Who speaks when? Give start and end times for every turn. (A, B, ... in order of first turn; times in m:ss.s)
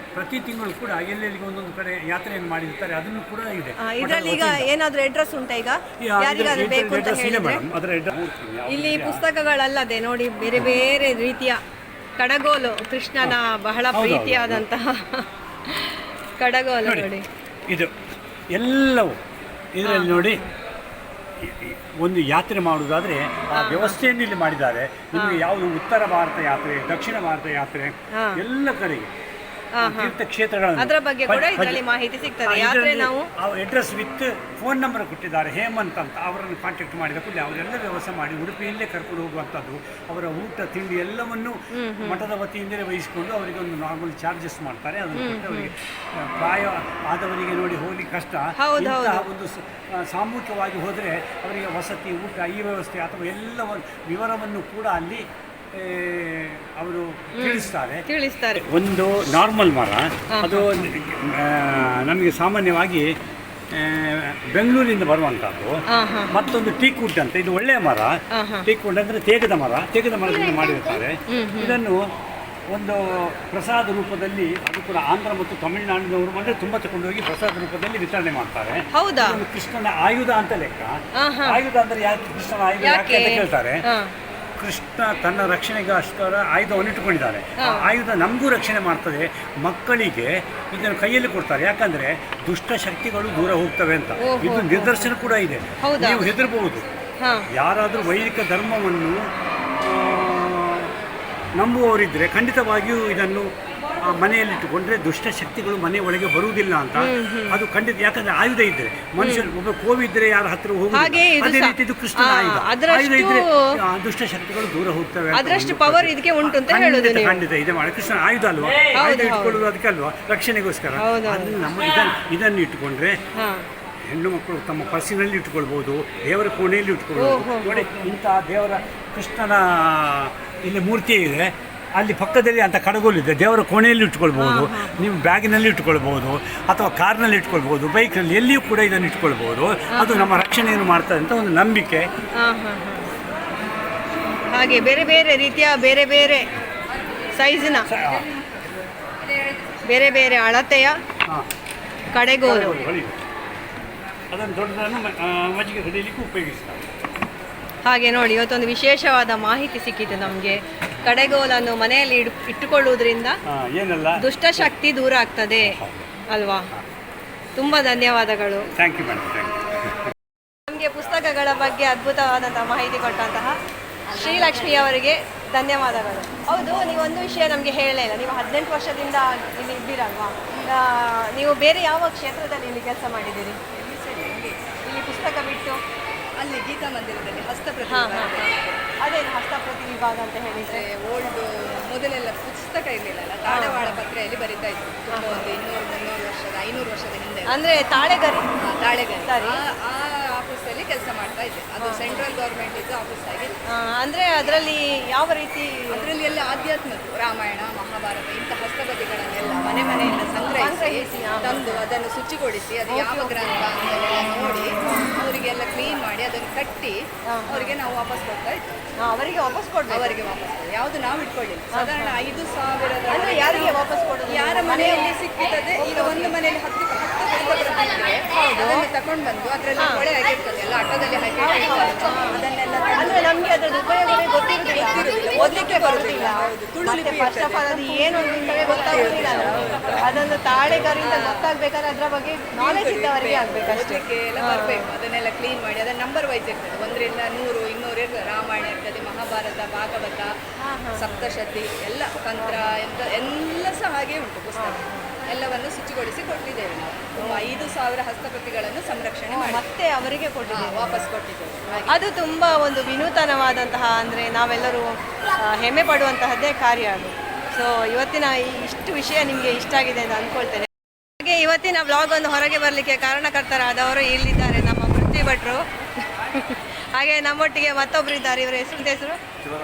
0:00.1-0:04.7 A
0:03.8-0:07.6 B
0:06.0-0:09.2 A
0:08.7-0:11.6 B
0:12.2-0:17.2 B
0:13.9-0:14.6 A
0:16.8-0:17.1 A
0:18.5-0:19.2 A
0:19.7-0:20.4 A
0:19.8-0:20.5 B
0:21.4-0:29.1 A
0:23.5-0:24.0 B
0:25.1-0:25.4 B
0:28.1-0:28.4 B
0:29.7-0:30.1 B
0:29.8-0:31.8 A
0:30.8-0:33.3 B
0:32.4-0:58.0 A
0:41.7-0:42.3 B
0:45.1-0:45.7 B
0:48.6-0:49.3 B
0:57.4-0:58.6 B
0:58.6-1:03.1 A
1:00.3-1:00.9 B
1:03.7-1:05.8 A
1:05.9-1:06.3 B
1:06.3-1:12.0 A
1:08.3-1:08.7 B
1:11.3-1:11.8 B
1:12.7-1:23.8 A
1:18.9-1:19.4 B
1:21.2-1:21.6 B
1:22.8-1:24.1 B
1:24.6-1:36.8 A
1:27.6-1:27.8 B
1:34.2-1:35.1 B
1:35.8-1:36.3 B
1:37.5-1:39.2 A
1:39.8-1:40.9 A
1:41.6-2:03.2 A
1:47.0-1:47.6 B
1:49.2-1:49.4 B
1:50.9-1:53.6 B
1:55.3-1:57.4 B
1:58.9-1:59.6 B
2:00.9-2:01.6 B
2:03.4-2:03.6 B
2:04.0-2:22.1 A
2:07.2-2:07.9 B
2:14.3-2:14.9 B
2:19.9-2:20.4 B
2:22.4-2:23.1 B
2:24.5-2:26.5 B
2:26.9-2:28.6 C
2:27.3-2:27.9 B
2:27.8-2:28.2 A
2:29.2-2:30.1 C
2:29.8-2:31.0 B
2:32.1-2:32.8 B
2:32.4-2:33.2 A
2:34.3-2:36.8 A
2:37.8-2:43.4 B
2:43.4-2:44.7 A
2:44.2-2:45.8 B
2:45.6-2:46.1 A
2:46.3-2:46.7 B
2:47.6-2:48.7 B
2:48.7-2:50.1 A
2:50.7-2:53.6 B
2:54.1-3:03.6 B
3:03.7-3:04.6 C
3:04.8-3:05.8 B
3:06.4-3:08.8 C
3:07.9-3:08.5 B
3:09.0-3:10.8 B
3:10.7-3:17.6 C
3:13.5-3:14.0 B
3:15.1-3:15.4 B
3:17.5-3:18.5 B
3:18.6-3:23.5 C
3:19.2-3:19.6 B
3:21.8-3:22.2 B
3:23.7-3:26.1 B
3:25.9-3:36.9 C
3:30.6-3:31.8 B
3:32.9-3:33.5 B
3:37.3-3:37.7 B
3:37.5-3:38.8 C
3:39.0-3:40.1 B
3:39.9-3:53.3 C
3:41.7-3:42.2 B
3:43.1-3:45.1 B
3:45.8-3:46.3 B
3:48.3-3:48.8 B
3:51.4-3:52.4 B
3:53.0-4:04.8 B
3:54.7-4:00.1 C
4:01.0-4:01.5 C
4:02.6-4:10.3 C
4:10.6-4:11.3 B
4:11.0-4:19.6 C
4:12.4-4:12.7 B
4:14.6-4:15.1 B
4:17.2-4:17.6 B
4:19.3-4:21.0 B
4:20.5-4:22.0 C
4:21.9-4:24.9 B
4:25.4-4:30.7 B
4:31.2-4:39.2 B